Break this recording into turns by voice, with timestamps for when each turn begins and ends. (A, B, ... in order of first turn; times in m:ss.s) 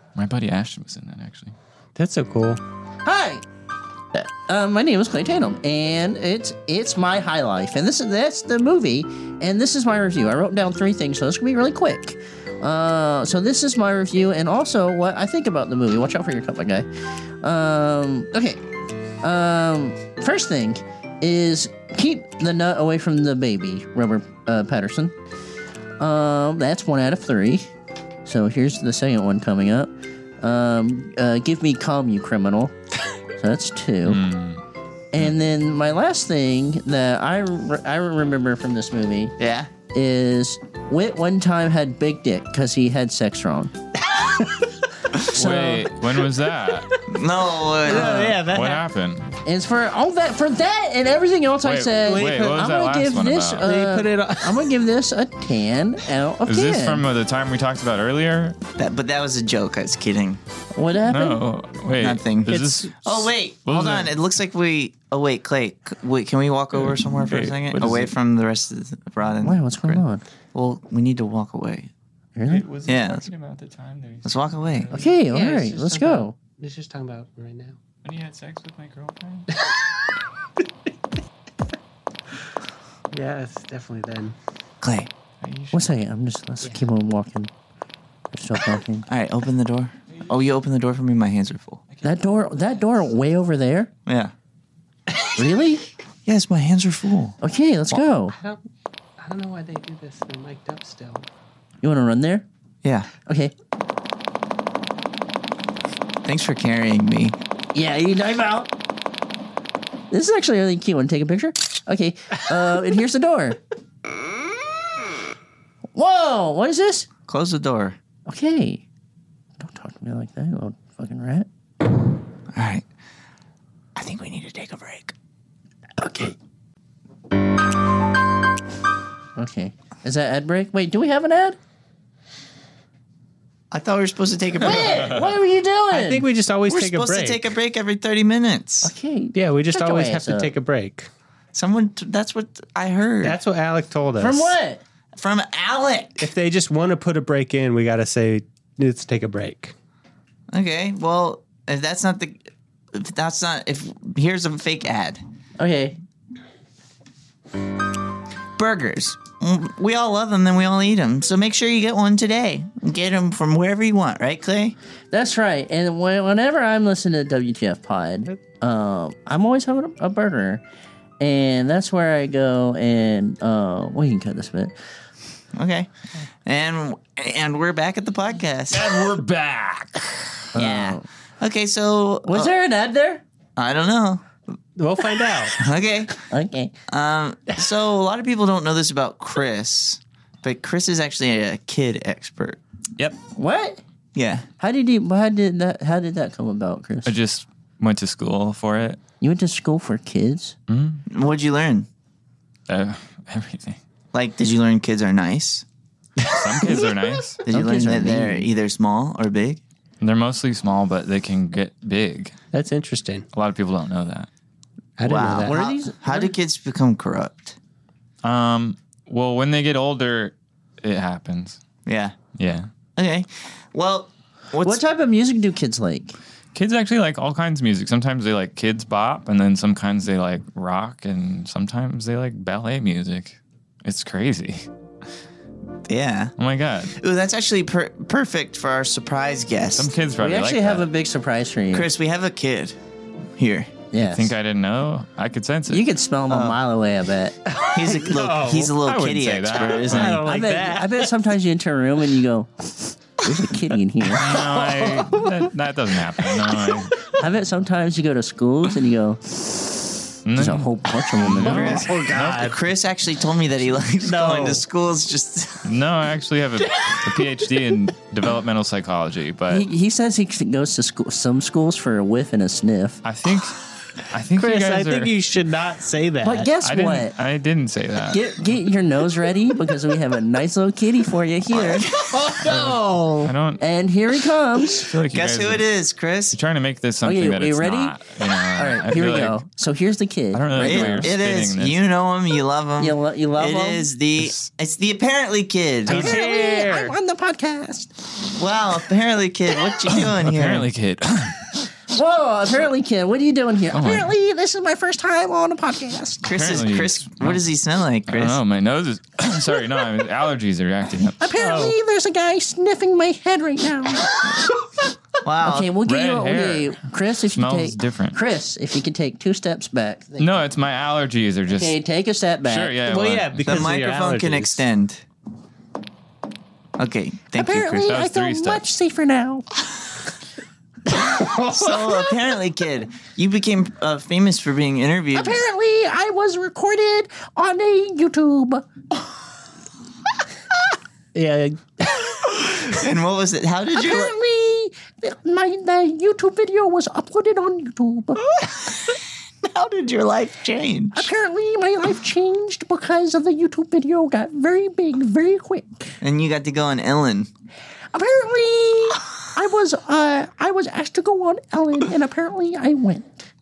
0:00.2-0:01.5 A
0:02.0-0:02.6 B
0:03.0-0:03.4 C
0:04.2-0:16.8 C
0:17.4-0:18.6 C
0:19.2-0:25.1 C
0:26.0-0:27.7 C
0:28.2-0:32.7 C
0:33.4-0:34.2 C
0:34.0-0:34.6 A
0:35.1-0:39.3 C
0:39.4-0:39.7 D
0:39.9-0:43.7 C
0:45.3-0:45.9 C
0:45.3-0:46.9 A
0:46.7-0:47.0 B
0:47.1-0:48.2 D
0:47.8-0:48.8 B
0:47.9-0:48.4 C
0:48.0-0:49.3 A
0:49.4-0:57.0 C
0:51.6-0:53.6 A
0:52.0-0:52.7 B
0:53.6-0:54.7 B
0:56.4-0:58.6 A
0:58.8-1:00.4 D
1:00.7-1:01.4 C
1:01.1-1:04.1 A
1:02.0-1:11.9 D
1:02.5-1:02.9 B
1:06.8-1:08.1 A
1:09.4-1:10.2 C
1:12.4-1:12.7 C
1:12.5-1:15.1 A
1:12.8-1:13.2 D
1:14.2-1:14.9 D
1:14.9-1:16.3 C
1:15.1-1:17.8 B
1:18.0-1:19.5 A
1:23.1-1:24.3 B
1:24.8-1:25.1 D
1:25.4-1:25.9 A
1:25.7-1:27.5 C
1:28.3-1:29.0 C
1:29.0-1:31.8 D
1:31.9-1:32.6 A
1:32.0-1:33.9 C
1:34.0-1:34.3 D
1:35.4-1:35.8 C
1:36.2-1:37.4 D
1:37.4-1:38.4 C
1:38.3-1:38.6 B
1:39.2-1:41.2 B
1:41.8-1:42.4 C
1:42.8-1:43.1 D
1:43.2-1:43.5 C
1:46.2-1:47.4 D
1:47.7-1:48.7 C
1:50.1-1:53.6 C
1:55.9-1:57.1 C
1:57.3-1:58.0 D
1:58.3-1:58.8 C
1:59.6-2:01.5 C
2:02.5-2:02.8 D
2:03.9-2:05.1 D
2:06.0-2:06.3 C
2:09.4-2:11.6 C
2:13.7-2:15.1 D
2:14.6-2:16.3 C
2:15.9-2:17.4 B
2:16.7-2:18.9 D
2:18.8-2:20.5 C
2:19.3-2:21.1 B
2:21.5-2:23.4 D
2:23.2-2:24.5 B
2:24.2-2:24.8 C
2:25.1-2:26.3 D
2:26.2-2:29.7 B
2:30.5-2:35.2 D
2:35.6-2:36.0 C
2:38.6-2:44.7 D
2:45.1-2:50.6 C
2:51.2-2:54.7 C
2:55.6-2:55.9 D
2:56.4-2:59.1 D
2:58.7-3:00.4 A
3:00.5-3:01.0 C
3:00.6-3:02.5 D
3:02.2-3:03.2 C
3:03.6-3:04.3 D
3:04.8-3:05.6 B
3:05.6-3:06.1 D
3:06.3-3:06.7 C
3:06.9-3:12.6 D
3:13.3-3:13.8 C
3:14.1-3:14.4 D
3:14.6-3:17.1 C
3:17.0-3:19.0 A
3:19.2-3:20.6 C
3:20.7-3:21.0 A
3:21.1-3:21.9 D
3:22.7-3:23.8 A
3:24.1-3:25.6 D
3:26.2-3:26.8 B
3:26.3-3:27.4 A
3:27.4-3:29.6 D
3:27.5-3:28.5 C
3:30.0-3:32.4 A
3:32.5-3:33.2 B
3:33.3-3:34.3 A
3:35.0-3:35.6 B
3:35.0-3:37.6 D
3:35.4-3:36.3 C
3:38.2-3:41.6 A
3:41.8-3:42.2 D
3:42.4-3:42.7 A
3:43.0-3:44.8 D
3:44.6-3:46.1 C
3:46.5-3:54.7 A
3:55.8-3:56.3 D
3:56.4-3:56.9 A
3:56.9-3:59.9 D
3:59.8-4:00.9 A
4:00.2-4:01.9 C
4:01.7-4:02.8 D
4:03.4-4:03.7 D
4:03.9-4:04.3 C
4:04.1-4:05.8 A
4:05.7-4:07.5 C
4:06.3-4:06.6 D
4:07.7-4:10.2 D
4:08.0-4:08.7 B
4:08.8-4:10.3 A
4:09.8-4:11.1 B
4:10.2-4:14.3 C
4:14.2-4:16.9 A
4:14.3-4:15.3 B
4:17.2-4:21.9 C
4:20.2-4:22.6 A
4:21.4-4:25.7 D
4:21.5-4:22.6 B
4:24.0-4:24.6 B
4:25.6-4:29.6 A
4:29.5-4:33.0 C
4:33.0-4:35.1 A
4:34.4-4:36.5 B
4:36.2-4:37.1 C
4:36.6-4:38.2 A
4:38.1-4:41.9 C
4:41.5-4:41.8 D
4:42.1-4:43.0 B
4:42.4-4:43.6 A
4:42.6-4:44.9 C
4:44.8-4:45.7 A
4:45.1-4:46.4 D
4:46.3-4:49.4 A
4:47.0-4:48.0 C
4:48.5-4:51.1 C
4:50.3-4:51.8 A
4:50.6-4:56.1 D
4:52.8-4:53.9 C
4:54.2-4:54.5 A
4:55.9-4:57.0 B
4:55.9-4:56.2 A
4:55.9-4:57.9 C
4:58.3-5:00.7 D
5:00.0-5:01.6 A
5:01.9-5:06.3 C
5:03.7-5:04.1 A
5:06.2-5:08.4 D
5:06.3-5:07.4 A
5:08.1-5:11.2 A
5:11.2-5:14.2 C
5:11.4-5:11.8 B
5:15.2-5:15.7 D
5:15.4-5:20.4 C
5:15.8-5:18.2 A
5:20.2-5:21.8 A
5:21.5-5:22.8 C
5:22.4-5:23.7 A
5:22.8-5:24.6 B
5:23.4-5:25.0 D
5:26.8-5:27.9 D
5:27.3-5:29.4 C
5:27.9-5:28.6 A
5:31.2-5:31.6 B
5:31.5-5:35.4 D
5:35.1-5:38.6 C
5:41.1-5:42.3 B
5:42.6-5:44.2 D
5:43.7-5:48.2 C
5:48.4-5:51.1 D
5:50.9-5:55.9 C
5:56.0-5:57.3 D
5:57.9-6:03.2 C